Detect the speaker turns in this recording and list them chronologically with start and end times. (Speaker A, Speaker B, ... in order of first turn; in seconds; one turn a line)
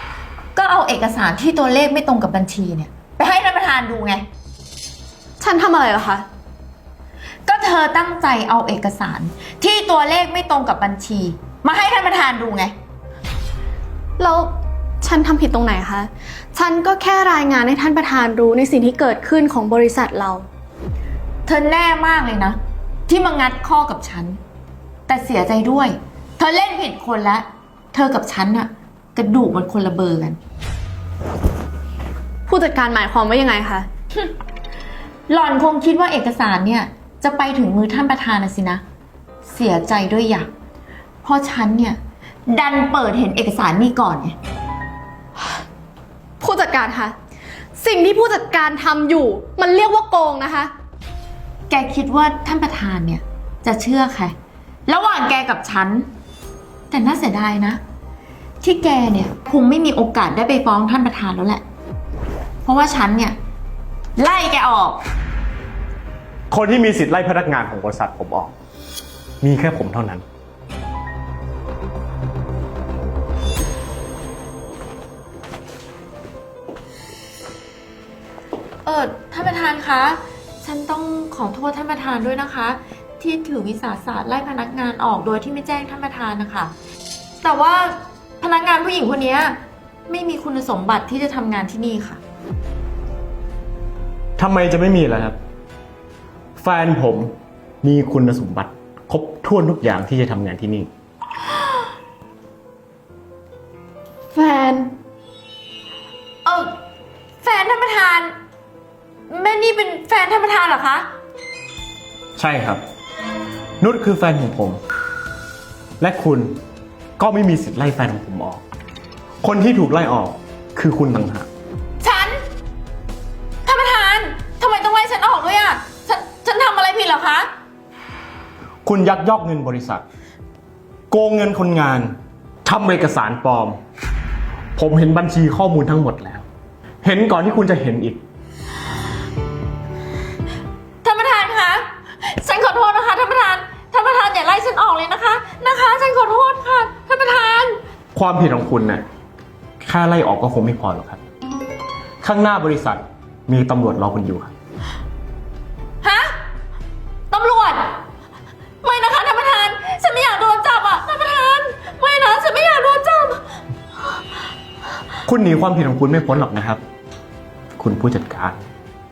Speaker A: 0.6-4.2
Speaker B: 5.4-6.2
Speaker A: 7.5-12.7
Speaker B: 14.2-20.5
Speaker A: 21.4-24.4
Speaker A: 25.1-30.4
Speaker B: 32.5-33.9
Speaker A: 35.3-38.8
Speaker A: 39.5-40.5
Speaker A: 41.2-44.4
Speaker B: 46.4-47.1
Speaker B: 47.8-50.7
Speaker A: 51.7-54.3
Speaker A: 54.9-56.1
Speaker A: 56.9-57.8
Speaker A: 58.6-61.6
Speaker A: 62.6-63.4
Speaker A: 64.2-65.0
Speaker C: 66.5-68.5
Speaker C: 69.4-70.2
Speaker A: 78.8-86.7
Speaker A: 87.4-92.2
Speaker C: 94.4-95.4
Speaker C: 96.6-100.9
Speaker B: 104.3-104.9
Speaker A: 106.4-106.7
Speaker A: 107.4-108.3
Speaker A: 109.3-111.1
Speaker C: 112.4-112.8
Speaker C: 113.8-114.8
Speaker C: 116.0-116.6
Speaker C: 117.2-118.6
Speaker C: 119.4-121.5
Speaker A: 122.0-122.4
Speaker A: 123.6-127.5
Speaker C: 128.8-130.0
Speaker C: 131.1-133.8
Speaker C: 134.8-136.4
Speaker C: 137.0-138.2
Speaker A: 141.0-147.8
Speaker C: 148.1-149.0
Speaker C: 149.8-151.2
Speaker C: 152.2-154.5
Speaker A: 156.0-156.3
Speaker A: 157.3-157.9
Speaker A: 158.8-163.4
Speaker C: 165.2-166.8
Speaker C: 167.8-168.6